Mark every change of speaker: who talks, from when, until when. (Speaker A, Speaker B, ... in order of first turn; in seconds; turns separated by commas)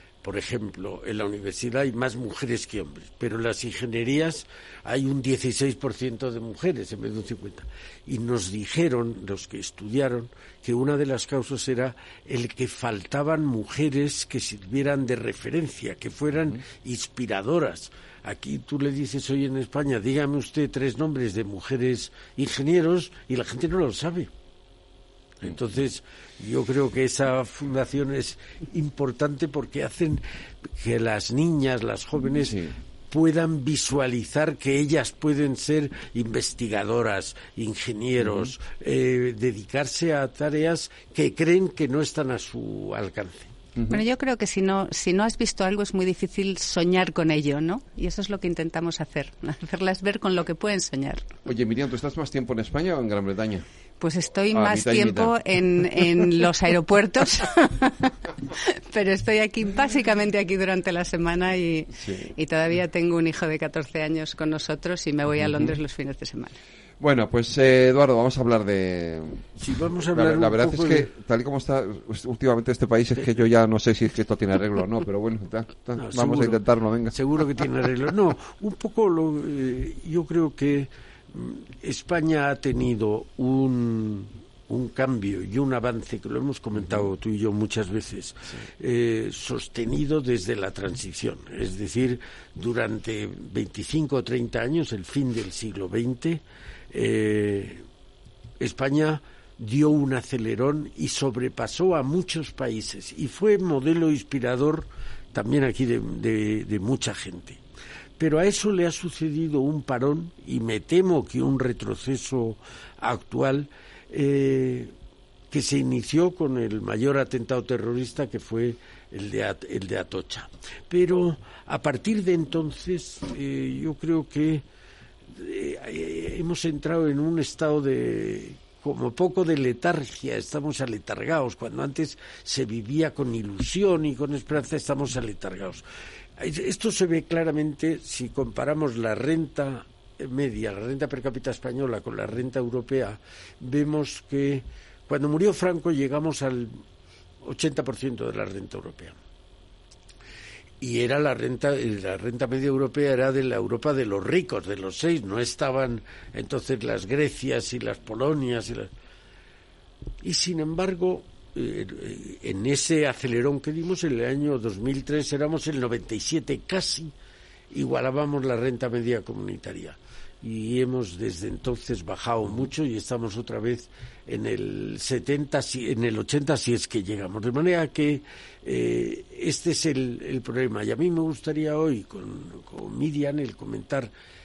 Speaker A: 0.2-24.3, Speaker A: 25.4-43.5, Speaker B: 32.4-32.7, Speaker B: 38.2-38.5, Speaker B: 43.8-44.0, Speaker C: 43.9-51.3, Speaker B: 51.5-53.6, Speaker C: 54.0-66.6, Speaker B: 54.5-56.3, Speaker B: 62.0-62.3, Speaker B: 65.4-65.8, Speaker B: 67.0-69.5, Speaker A: 69.6-71.1, Speaker B: 70.1-77.2, Speaker A: 76.0-97.8, Speaker A: 98.6-107.6, Speaker A: 108.2-114.9, Speaker A: 115.5-124.7, Speaker A: 125.3-135.8, Speaker A: 136.4-146.8, Speaker A: 147.4-149.2, Speaker A: 150.8-158.9, Speaker A: 160.2-167.1, Speaker A: 167.7-184.1